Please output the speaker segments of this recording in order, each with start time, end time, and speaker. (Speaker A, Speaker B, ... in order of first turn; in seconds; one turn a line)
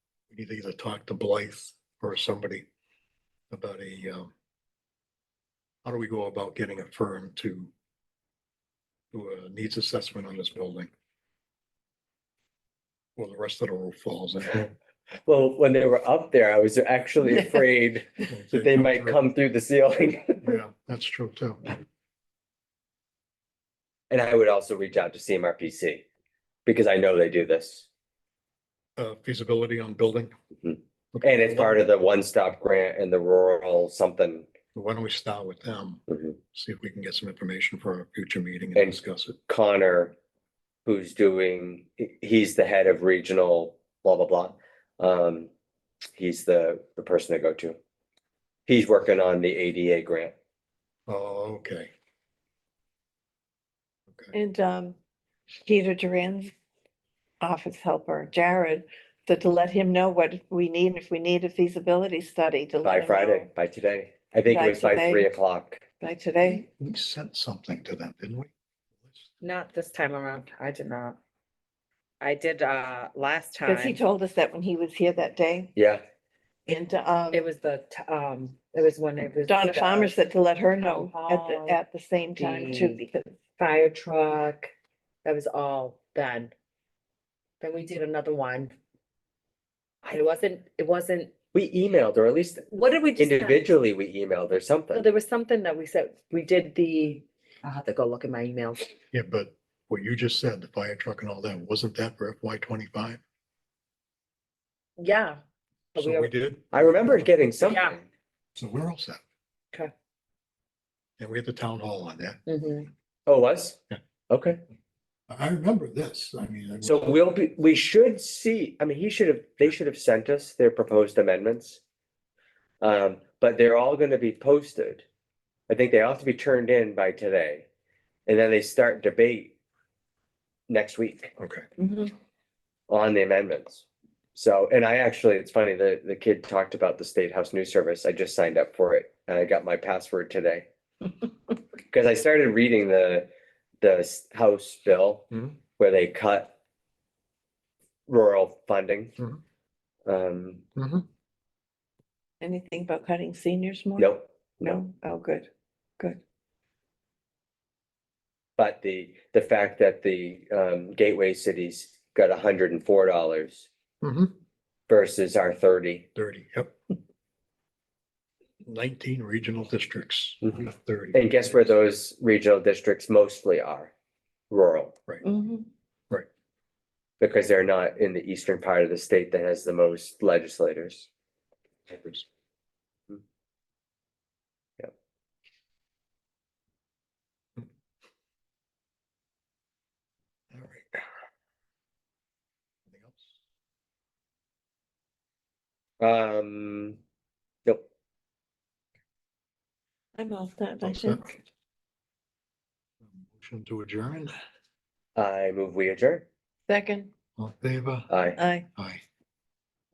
Speaker A: 0.3-2.7
Speaker A: 3.5-4.3
Speaker A: 5.8-7.7
Speaker A: 9.1-10.9
Speaker A: 13.2-14.7
Speaker B: 15.3-20.6
Speaker A: 18.3-19.2
Speaker A: 20.4-21.8
Speaker B: 24.1-26.0
Speaker B: 26.7-27.9
Speaker A: 29.0-30.3
Speaker B: 30.6-34.5
Speaker A: 31.1-31.9
Speaker A: 34.7-39.4
Speaker B: 36.1-36.4
Speaker B: 38.8-40.1
Speaker B: 40.9-45.5
Speaker B: 46.1-47.8
Speaker B: 48.7-50.3
Speaker A: 51.1-51.9
Speaker C: 54.3-55.0
Speaker C: 55.6-56.5
Speaker C: 57.4-63.5
Speaker B: 62.8-65.8
Speaker C: 64.5-65.3
Speaker C: 66.0-66.7
Speaker A: 66.5-68.5
Speaker D: 69.4-71.2
Speaker D: 72.2-74.0
Speaker C: 73.6-75.7
Speaker B: 75.8-76.0
Speaker C: 76.7-77.5
Speaker D: 77.3-80.2
Speaker C: 79.5-83.4
Speaker D: 80.8-81.8
Speaker D: 82.4-83.0
Speaker D: 83.6-84.7
Speaker D: 85.2-86.5
Speaker D: 87.6-88.8
Speaker D: 90.1-91.3
Speaker B: 91.5-95.1
Speaker D: 92.7-93.7
Speaker D: 94.9-98.9
Speaker A: 99.1-103.2
Speaker D: 105.0-105.4
Speaker D: 106.0-106.3
Speaker A: 106.0-107.3
Speaker B: 106.7-108.1
Speaker D: 107.6-107.9
Speaker A: 108.5-109.2
Speaker A: 111.2-112.4
Speaker D: 112.5-112.9
Speaker B: 113.3-113.8
Speaker B: 114.3-114.6
Speaker A: 115.3-117.2
Speaker B: 116.8-121.8
Speaker B: 122.8-125.0
Speaker B: 125.7-127.7
Speaker B: 128.3-129.5
Speaker B: 130.7-131.3
Speaker A: 131.4-131.7
Speaker C: 131.8-132.1
Speaker B: 132.9-140.7
Speaker B: 141.9-143.3
Speaker B: 143.8-145.3
Speaker A: 145.3-145.6
Speaker B: 145.8-146.5
Speaker B: 148.1-149.1
Speaker B: 150.1-150.7
Speaker A: 150.8-151.1
Speaker C: 152.4-155.5
Speaker B: 154.0-154.8
Speaker B: 158.6-163.7
Speaker A: 164.0-164.3
Speaker B: 164.9-166.1
Speaker A: 166.2-166.7
Speaker A: 168.6-171.7
Speaker B: 171.1-173.9
Speaker B: 174.5-175.0
Speaker C: 175.2-175.7
Speaker B: 177.2-181.1
Speaker A: 181.9-182.2
Speaker A: 190.5-191.0
Speaker A: 192.9-193.4
Speaker B: 196.0-197.0
Speaker C: 200.2-201.4
Speaker A: 200.8-201.3
Speaker A: 203.1-204.3
Speaker B: 205.2-206.3
Speaker C: 206.7-207.1
Speaker A: 207.4-208.1
Speaker B: 208.1-208.4
Speaker C: 208.4-208.7
Speaker A: 208.8-209.0